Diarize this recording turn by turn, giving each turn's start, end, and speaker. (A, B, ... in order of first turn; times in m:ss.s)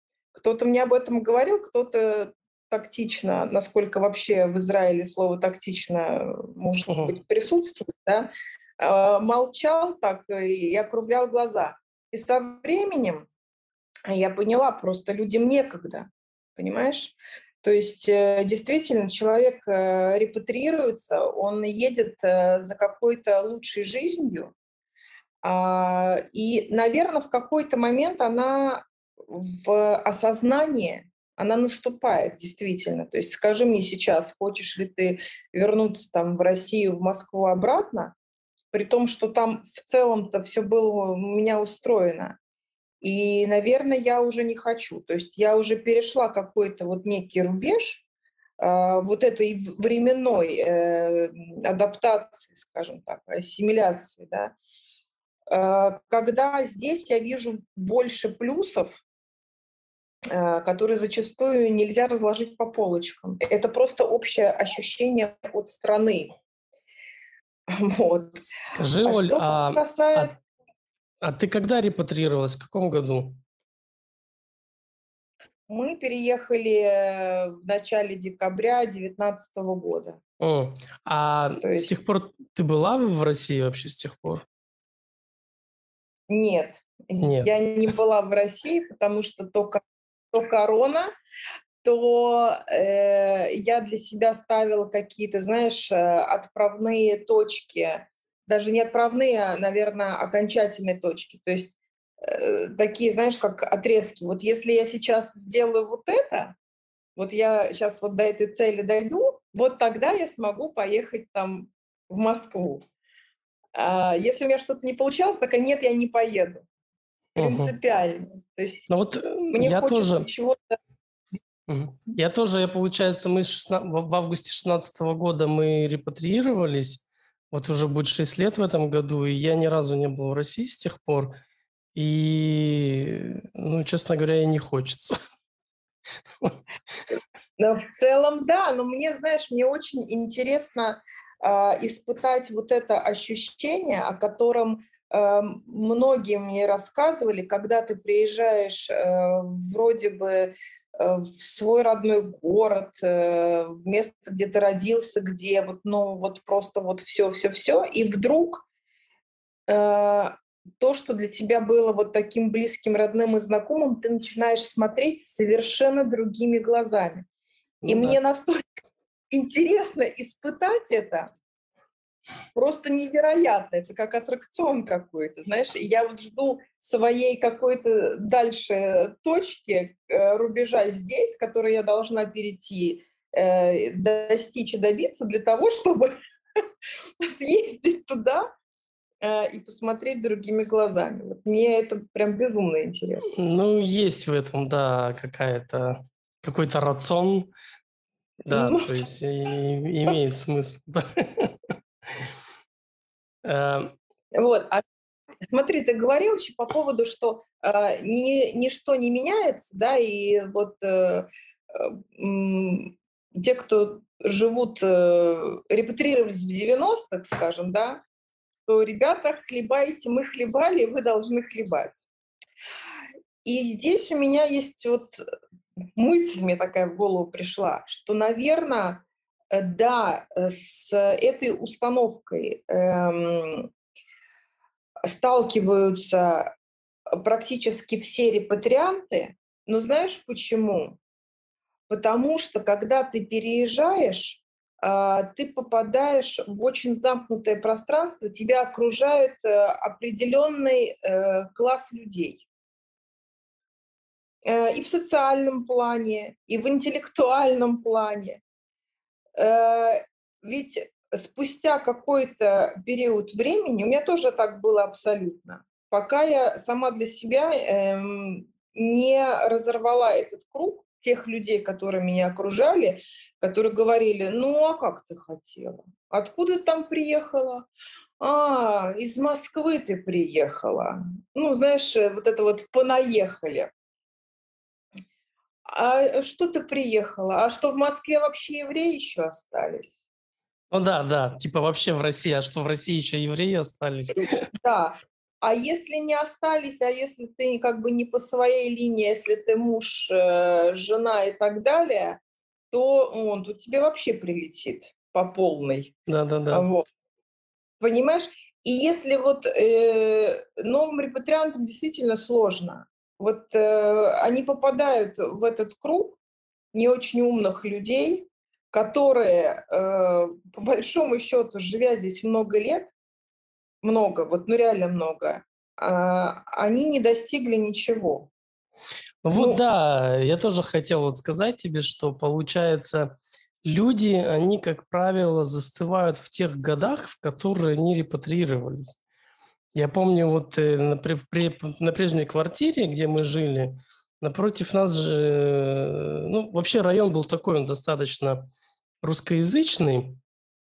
0:00.3-0:13.3 A
0:06.9-0:07.2 B
0:14.1-0:24.5 A
0:25.4-0:38.2 A
0:38.7-0:42.4 A
0:43.0-0:48.0 A
0:48.6-0:54.6 A
0:55.5-0:59.0 A
1:00.3-1:06.3 A
1:07.7-1:10.4 A
1:08.7-1:10.3 B
1:11.2-1:13.4 B
1:15.7-1:20.2 A
1:20.4-1:24.5 B
1:21.6-1:21.9 A
1:26.3-1:31.1 A
1:27.2-1:27.5 B
1:31.8-1:46.6 A
1:47.2-1:52.8 A
1:53.8-1:56.7 A
1:57.4-1:57.7 B
1:57.4-1:58.8 A
1:58.9-2:00.3 B
1:59.5-2:00.8 A
2:01.7-2:11.4 B
2:12.0-2:15.2 B
2:17.6-2:38.6 A
2:39.7-2:47.3 A
2:47.8-2:48.2 B
2:47.9-2:48.6 A
2:49.3-2:51.3 A
2:52.6-3:06.1 A
3:07.2-3:08.5 A
3:09.2-3:13.3 A
3:13.3-3:17.5 B
3:18.4-3:21.6 B
3:18.5-3:19.1 A
3:23.4-3:24.0 B
3:24.3-3:24.8 A
3:25.4-3:38.0 A
3:38.7-3:42.1 A
3:43.4-3:45.2 A
3:46.0-3:53.7 A
3:55.1-3:56.6 A
3:57.2-4:01.0 A
4:01.9-4:12.5 A
4:14.4-4:18.4 A
4:19.4-4:37.7 A
4:38.2-4:43.7 A
4:45.7-4:50.0 A
4:50.7-4:54.5 B
4:54.6-5:06.0 A
5:06.1-5:06.7 B
5:06.5-5:06.8 A
5:07.8-5:16.2 A
5:16.7-5:22.9 A
5:23.8-5:28.3 A
5:29.2-5:39.0 B
5:29.3-5:29.6 A
5:39.8-5:48.5 B
5:49.0-5:50.2 B